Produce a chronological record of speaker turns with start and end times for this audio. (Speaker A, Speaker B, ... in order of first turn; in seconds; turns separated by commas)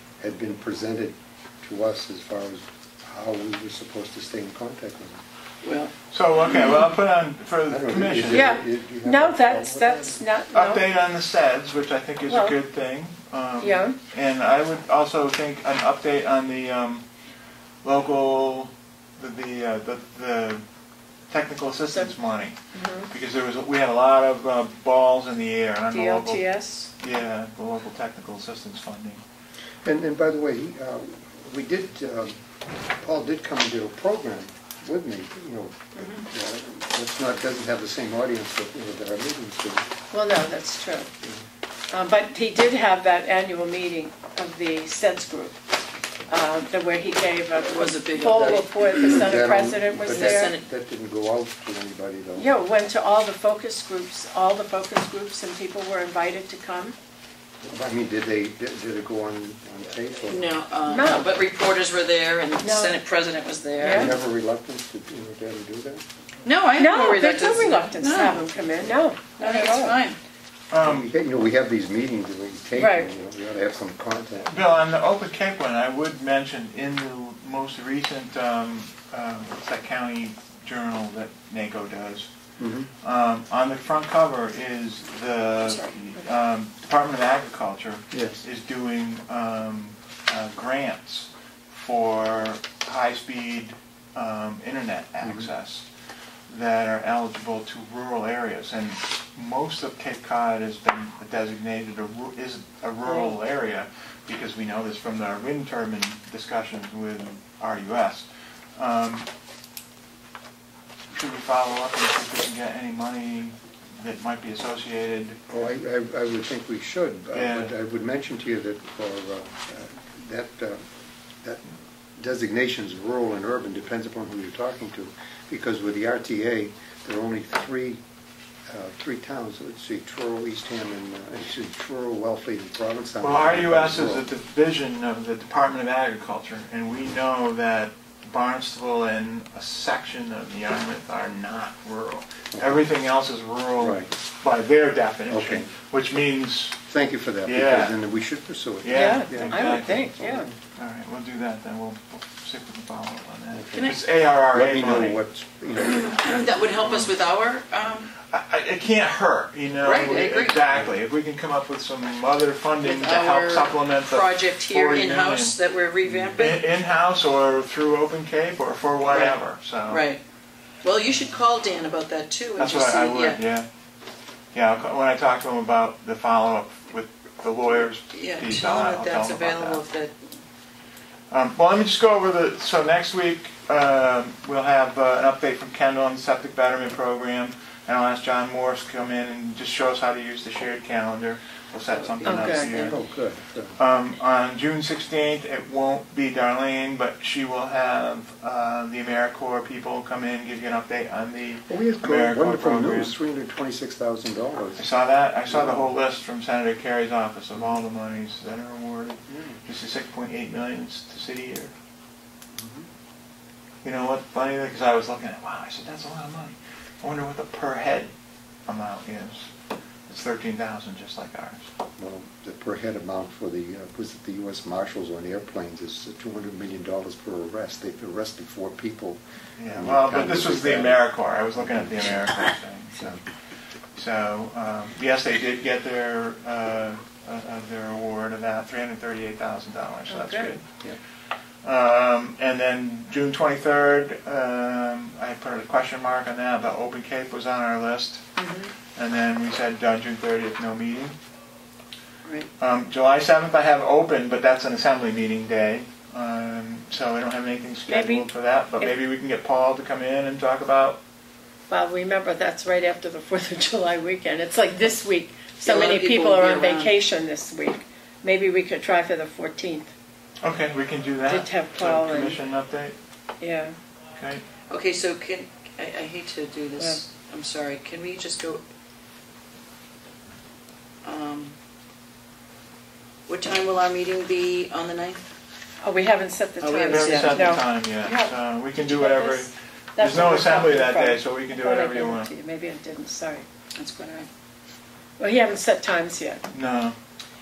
Speaker A: 0.2-5.2, Speaker B: 5.6-6.8, Speaker C: 6.1-8.6, Speaker A: 7.7-10.2, Speaker D: 8.3-10.8, Speaker C: 10.5-17.1, Speaker D: 12.3-12.6, Speaker D: 13.6-14.0, Speaker C: 17.8-20.6, Speaker C: 21.3-22.6, Speaker D: 22.7-23.1, Speaker C: 23.1-26.4, Speaker D: 25.9-26.9, Speaker C: 27.0-29.2, Speaker A: 29.8-39.9, Speaker D: 40.1-41.1, Speaker D: 41.9-45.6, Speaker D: 46.3-50.5, Speaker B: 47.6-49.2, Speaker A: 48.2-52.5, Speaker B: 50.0-50.6, Speaker D: 52.4-57.0, Speaker A: 57.6-60.5, Speaker B: 60.3-64.2, Speaker D: 60.8-61.3, Speaker D: 62.6-63.0, Speaker D: 63.8-64.2, Speaker A: 63.8-66.0, Speaker B: 66.4-68.5, Speaker D: 66.8-70.0, Speaker B: 69.3-70.2, Speaker C: 70.7-71.1, Speaker A: 70.8-74.7, Speaker D: 72.7-73.1, Speaker C: 74.5-82.3, Speaker A: 82.6-82.9, Speaker C: 83.0-95.9, Speaker B: 85.6-86.2, Speaker A: 88.1-88.4, Speaker A: 95.2-95.5, Speaker C: 96.5-109.3, Speaker D: 103.0-103.3, Speaker C: 111.1-115.4, Speaker A: 115.5-120.8, Speaker C: 117.3-117.7, Speaker A: 121.4-128.0, Speaker A: 128.7-134.3, Speaker C: 133.2-146.8, Speaker A: 143.8-144.1, Speaker A: 145.3-145.7, Speaker A: 146.9-150.5, Speaker C: 147.4-148.0, Speaker C: 148.8-155.2, Speaker D: 148.9-150.5, Speaker A: 153.5-153.9, Speaker B: 153.7-154.0, Speaker A: 154.5-156.7, Speaker B: 155.8-158.1, Speaker C: 156.8-157.1, Speaker C: 158.3-165.6, Speaker B: 159.8-160.6, Speaker B: 162.8-166.6, Speaker A: 166.0-166.4, Speaker C: 166.3-170.0, Speaker B: 169.1-169.4, Speaker B: 169.9-170.2, Speaker B: 170.8-173.4, Speaker C: 172.6-173.7, Speaker C: 174.5-179.8, Speaker B: 178.1-180.1, Speaker C: 181.3-193.0, Speaker B: 191.9-192.9, Speaker D: 192.2-192.7, Speaker A: 192.8-193.8, Speaker C: 193.8-203.1, Speaker A: 201.7-204.8, Speaker C: 204.8-211.7, Speaker A: 205.5-205.9, Speaker A: 209.3-209.6, Speaker A: 212.6-212.9, Speaker C: 213.8-218.1, Speaker C: 218.7-219.5, Speaker C: 220.1-221.7, Speaker A: 222.0-232.3, Speaker C: 229.6-233.2, Speaker A: 232.9-233.2, Speaker C: 233.9-240.7, Speaker D: 240.1-240.5, Speaker C: 241.6-248.3, Speaker D: 248.4-248.7, Speaker C: 248.9-251.1, Speaker C: 252.6-261.0, Speaker D: 257.9-258.2, Speaker D: 261.7-269.9, Speaker B: 265.6-266.9, Speaker C: 270.4-272.9, Speaker D: 271.2-272.4, Speaker D: 273.4-273.7, Speaker C: 274.1-274.4, Speaker B: 274.7-278.6, Speaker B: 281.0-281.5, Speaker B: 283.3-285.2, Speaker D: 285.8-293.4, Speaker B: 286.6-287.6, Speaker C: 286.9-292.3, Speaker B: 293.8-294.3, Speaker D: 295.2-296.4, Speaker C: 296.5-296.9